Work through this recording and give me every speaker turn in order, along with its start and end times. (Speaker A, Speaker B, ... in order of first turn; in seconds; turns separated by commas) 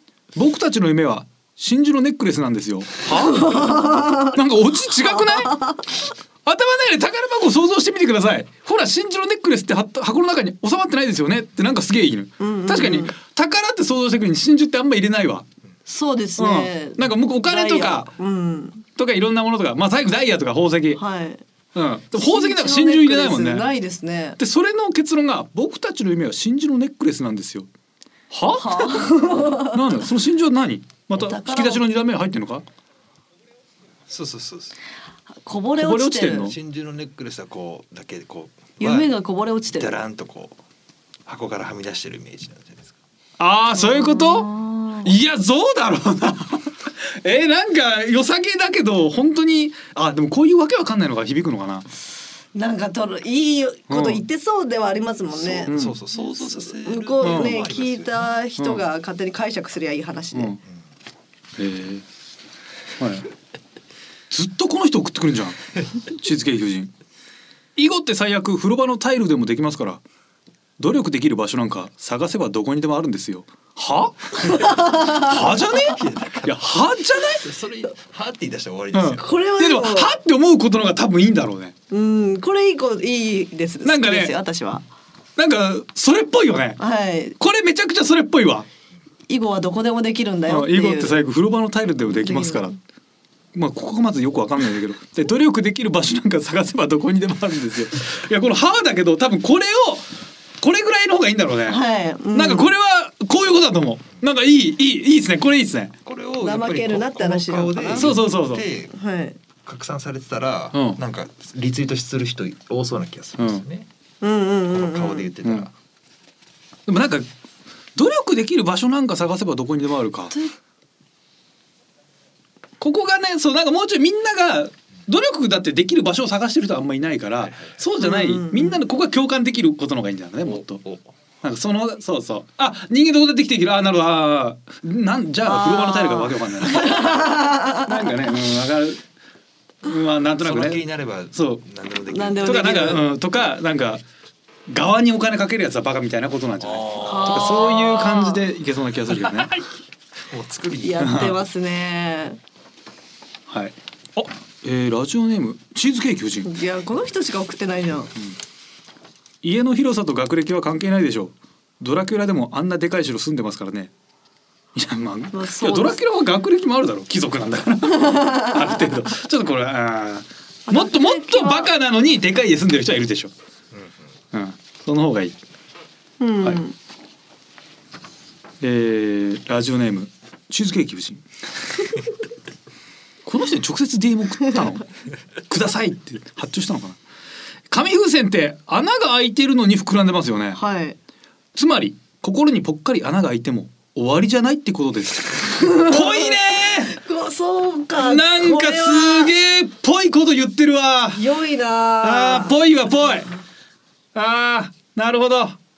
Speaker A: 0.3-5.7, Speaker B: 3.1-4.3, Speaker B: 5.1-5.8, Speaker A: 6.4-15.4, Speaker B: 12.4-13.1, Speaker B: 15.8-18.8, Speaker A: 16.4-18.1, Speaker A: 19.0-21.0, Speaker B: 20.9-21.4, Speaker A: 21.7-23.7, Speaker B: 22.1-24.4, Speaker A: 24.4-27.7, Speaker A: 28.3-32.6, Speaker B: 28.5-29.8, Speaker B: 31.1-31.8, Speaker C: 34.1-34.8, Speaker B: 35.4-36.5, Speaker A: 35.8-36.6, Speaker C: 36.4-39.1, Speaker B: 38.8-39.9, Speaker C: 39.7-40.6, Speaker C: 41.2-43.0, Speaker A: 43.4-44.5, Speaker B: 43.7-45.1, Speaker A: 45.0-51.9, Speaker B: 52.5-55.7, Speaker A: 53.9-54.2, Speaker C: 55.5-58.3, Speaker A: 55.7-56.0, Speaker B: 56.4-60.5, Speaker A: 57.2-57.6, Speaker A: 58.6-58.8, Speaker A: 61.6-62.0, Speaker A: 63.0-63.3, Speaker A: 64.3-66.9, Speaker A: 67.8-70.0, Speaker A: 70.8-77.4, Speaker B: 74.5-75.4, Speaker C: 75.8-76.6, Speaker C: 77.3-79.2, Speaker A: 78.9-81.7, Speaker B: 79.2-80.1, Speaker B: 81.9-84.8, Speaker A: 83.8-84.4, Speaker A: 85.4-86.8, Speaker B: 86.8-87.3, Speaker A: 87.4-88.7, Speaker B: 89.3-91.2, Speaker A: 90.5-92.8, Speaker B: 92.1-92.8, Speaker A: 93.5-100.0, Speaker A: 100.6-101.8, Speaker B: 101.7-102.7, Speaker A: 102.3-105.9, Speaker C: 106.0-108.9, Speaker B: 106.4-108.2, Speaker A: 107.9-108.6, Speaker B: 108.9-109.4, Speaker C: 109.6-113.9, Speaker A: 110.7-111.0, Speaker A: 113.4-113.6, Speaker B: 114.2-115.3, Speaker C: 114.7-115.7, Speaker A: 116.9-117.3, Speaker A: 118.0-120.3, Speaker A: 122.8-130.8, Speaker B: 128.0-128.8, Speaker C: 130.4-131.0, Speaker A: 131.4-139.0, Speaker B: 135.4-138.1, Speaker A: 139.8-141.6, Speaker C: 140.4-142.7, Speaker B: 142.1-143.0, Speaker A: 142.4-144.0, Speaker A: 144.7-149.6, Speaker C: 146.6-147.5, Speaker B: 147.0-148.4, Speaker C: 150.3-151.1, Speaker B: 150.8-152.4, Speaker A: 151.0-151.4, Speaker A: 153.5-156.5, Speaker B: 156.4-158.1, Speaker A: 159.4-163.9, Speaker A: 164.7-173.3, Speaker B: 165.3-166.0, Speaker B: 168.0-168.7, Speaker B: 170.7-171.7, Speaker A: 174.3-175.3, Speaker B: 176.2-176.7, Speaker A: 178.6-181.2, Speaker A: 183.2-184.9, Speaker A: 185.5-187.0, Speaker A: 187.7-190.6, Speaker B: 190.5-191.0, Speaker A: 191.5-197.0, Speaker B: 195.6-199.3, Speaker A: 197.9-201.2, Speaker B: 201.1-202.6, Speaker A: 202.0-203.3, Speaker A: 204.1-205.6